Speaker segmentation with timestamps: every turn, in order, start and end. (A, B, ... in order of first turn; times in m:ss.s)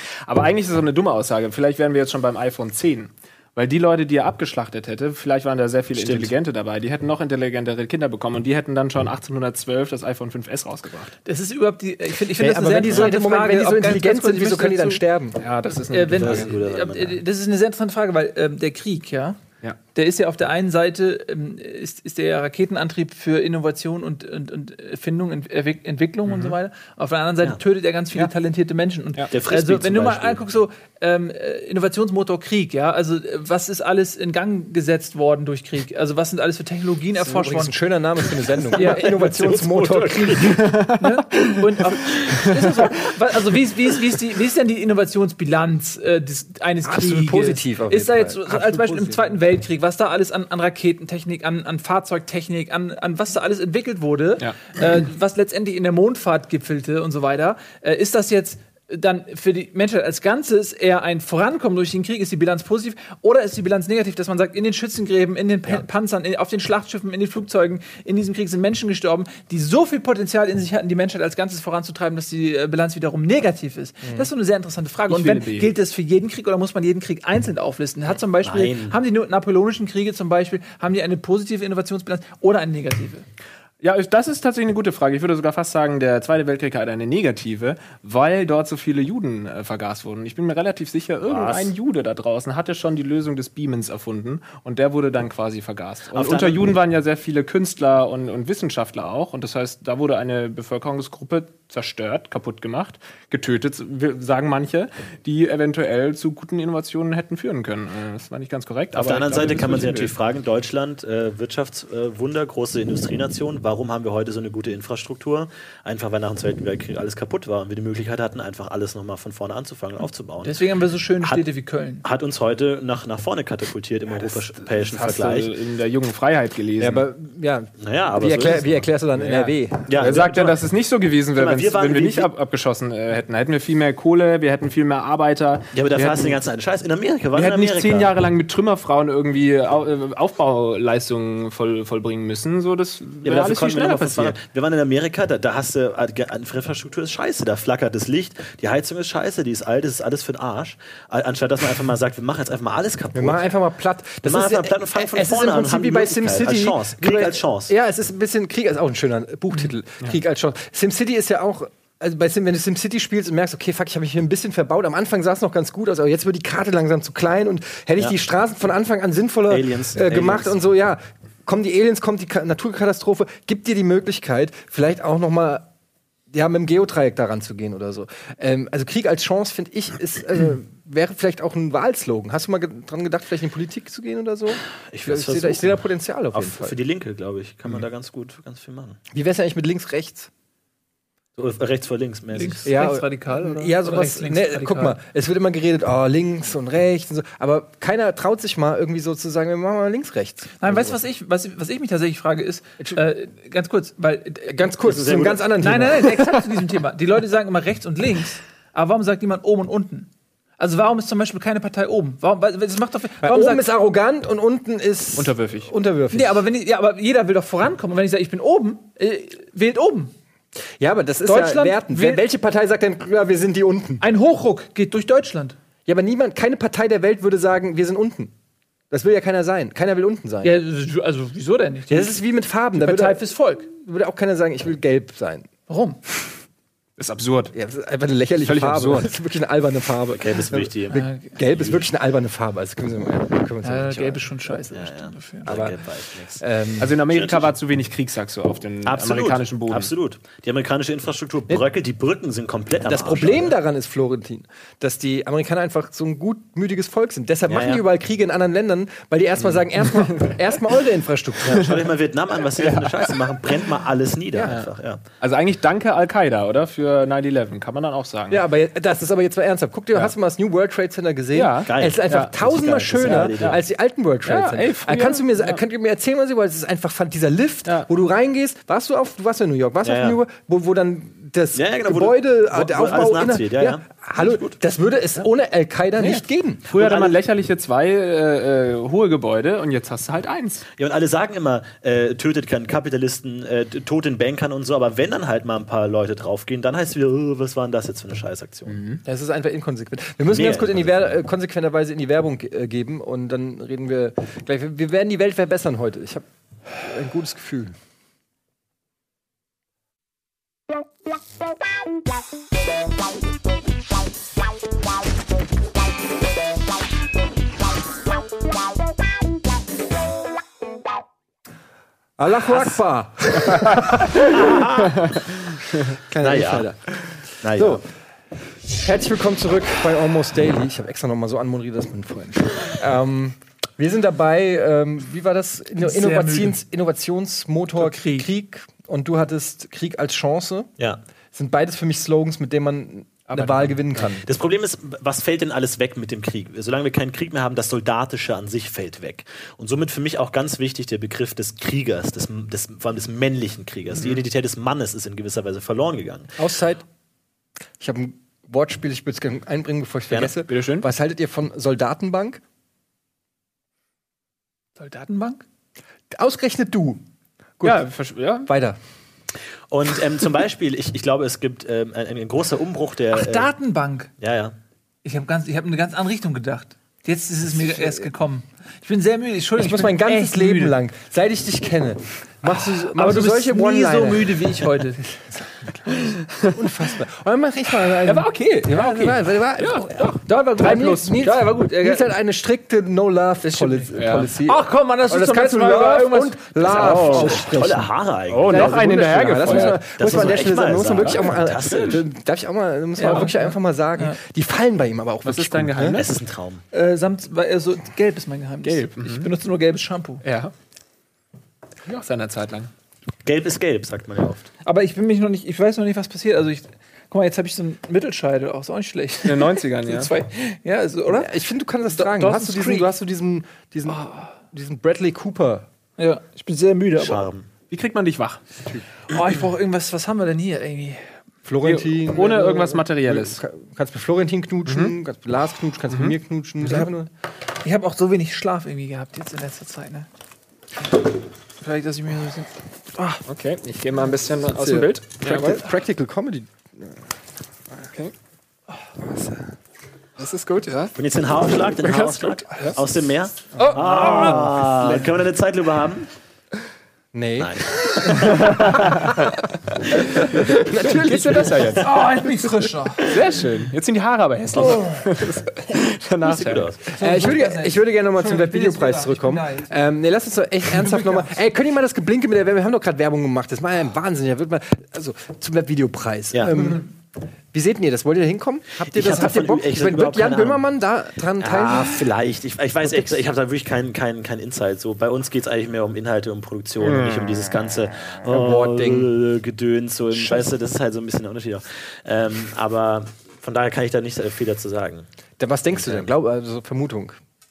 0:00.2-0:11.1 A
0:05.9-0:06.3 B
0:11.2-0:15.0 C
0:12.3-0:15.4 D
0:15.4-0:16.5 A
0:15.9-0:19.4 C
0:16.1-0:17.2 B
0:19.9-0:37.8 C
0:26.2-0:26.6 A
0:29.3-0:30.4 B
0:37.2-0:40.7 D
0:38.7-0:39.1 C
0:38.8-0:40.7 B
0:40.6-0:41.5 A
0:41.0-1:23.2 C
0:46.8-0:49.2 D
1:14.0-1:14.3 D
1:15.1-1:15.7 A
1:18.4-1:19.0 B
1:23.8-1:50.1 A
1:31.2-1:31.7 B
1:36.1-1:36.7 B
1:48.9-2:00.6 B
2:00.4-2:02.0 C
2:02.0-2:05.5 B
2:04.6-2:07.0 A
2:06.8-2:10.1 D
2:07.8-2:08.8 B
2:09.2-2:16.4 A
2:09.9-2:10.6 B
2:11.3-2:12.3 B
2:15.7-2:18.1 B
2:17.3-2:24.4 A
2:23.2-2:33.4 B
2:33.1-2:55.7 D
2:34.2-2:37.7 B
2:49.5-2:50.6 B
2:56.3-3:06.8 D
3:04.9-3:09.0 B
3:09.1-3:10.3 D
3:11.4-3:12.7 B
3:12.3-3:15.0 C
3:12.6-3:20.9 D
3:20.6-3:24.7 C
3:24.5-3:26.3 D
3:24.8-3:25.4 B
3:25.6-3:33.6 C
3:33.2-3:36.4 D
3:35.2-3:35.7 A
3:36.1-3:40.1 C
3:40.8-3:44.0 D
3:41.2-3:42.2 C
3:44.0-3:45.6 C
3:45.8-3:48.3 D
3:48.9-3:50.6 D
3:50.4-3:52.2 C
3:51.9-3:55.5 D
3:52.7-3:53.7 C
3:55.7-3:56.0 C
3:57.0-3:57.5 A
3:57.5-4:04.2 D
3:58.4-3:59.1 A
4:00.1-4:01.8 B
4:00.9-4:01.3 C
4:03.6-4:05.5 C
4:04.7-4:06.4 B
4:05.5-4:05.8 D
4:06.3-4:07.0 D
4:06.8-4:09.9 A
4:07.1-4:07.5 B
4:08.8-4:13.5 B
4:12.8-4:21.8 D
4:17.5-4:17.8 B
4:19.4-4:20.1 A
4:21.4-4:25.0 B
4:22.6-4:23.1 A
4:24.3-4:24.6 D
4:25.2-4:28.4 A
4:28.3-4:47.1 D
4:31.3-4:32.3 A
4:31.6-4:33.6 B
4:33.0-4:33.6 A
4:34.2-4:35.6 A
4:39.8-4:40.2 B
4:41.5-4:44.6 B
4:46.7-4:50.6 A
4:46.8-4:47.1 B
4:50.8-4:58.8 B
4:58.7-4:59.0 A
4:59.0-5:07.8 D
5:00.3-5:01.1 B
5:22.2-5:24.6 D
5:24.2-5:25.3 B
5:24.8-5:25.1 A
5:26.1-5:27.0 D
5:26.2-5:26.7 B
5:27.4-5:27.8 B
5:27.5-5:27.8 D
5:28.8-5:40.7 D
5:35.8-5:36.6 C
5:37.8-5:38.3 C
5:41.3-5:44.2 D
5:43.3-5:43.8 A
5:44.2-5:56.3 B
5:56.4-5:56.8 D
5:57.8-6:02.4 D
6:00.4-6:00.9 A
6:04.8-6:05.4 C
6:06.1-6:07.0 D
6:07.6-6:07.8 D
6:07.6-6:08.5 A
6:08.4-6:08.8 D
6:09.7-6:13.5 B
6:13.1-6:14.1 C
6:14.2-6:14.5 B
6:15.0-6:20.8 C
6:19.6-6:24.5 D
6:22.9-6:25.0 C
6:25.4-6:37.9 D
6:28.0-6:31.3 A
6:30.7-6:32.1 C
6:33.9-6:34.3 A
6:34.4-6:37.2 C
6:36.7-6:37.4 A
6:36.9-6:38.7 B
6:38.3-6:40.3 A
6:38.5-6:46.0 D
6:38.5-6:38.9 C
6:39.8-6:42.0 B
6:43.0-6:44.2 C
6:45.2-6:46.1 A
6:45.9-6:46.6 B
6:46.7-6:50.2 C
6:48.6-6:49.3 A
6:50.2-6:50.5 A
6:51.8-6:52.7 A
6:53.2-6:54.5 B
6:54.6-7:01.3 C
6:59.2-7:00.1 A
7:01.1-7:05.7 D
7:01.9-7:02.9 C
7:03.9-7:04.3 C
7:06.0-7:07.3 C
7:07.0-7:07.5 B
7:07.7-7:08.4 A
7:09.1-7:11.1 C
7:11.4-7:17.1 D
7:11.6-7:13.4 A
7:14.6-7:14.9 A
7:15.9-7:16.9 A
7:17.6-7:20.1 C
7:21.6-7:23.2 C
7:23.2-7:25.7 A
7:24.5-7:27.0 D
7:27.8-7:28.1 A
7:29.0-7:29.5 D
7:30.2-7:30.9 A
7:31.0-7:36.1 B
7:31.8-7:32.8 A
7:33.6-7:34.5 C
7:33.7-7:35.0 D
7:37.1-7:39.3 D
7:37.4-7:39.0 B
7:38.2-7:39.2 A
7:40.1-7:41.9 D
7:40.2-7:42.0 A
7:41.8-7:43.2 C
7:43.0-7:46.7 A
7:44.6-7:44.8 B
7:46.2-7:46.8 B
7:46.9-7:49.7 C
7:46.9-7:56.9 D
7:50.8-7:51.3 C
7:56.3-7:56.8 B
7:57.5-8:02.1 D
7:58.9-8:00.6 B
8:01.4-8:15.0 B
8:06.8-8:07.5 A
8:08.2-8:09.1 D
8:10.1-8:10.4 D
8:15.4-8:17.2 D
8:15.7-8:16.1 B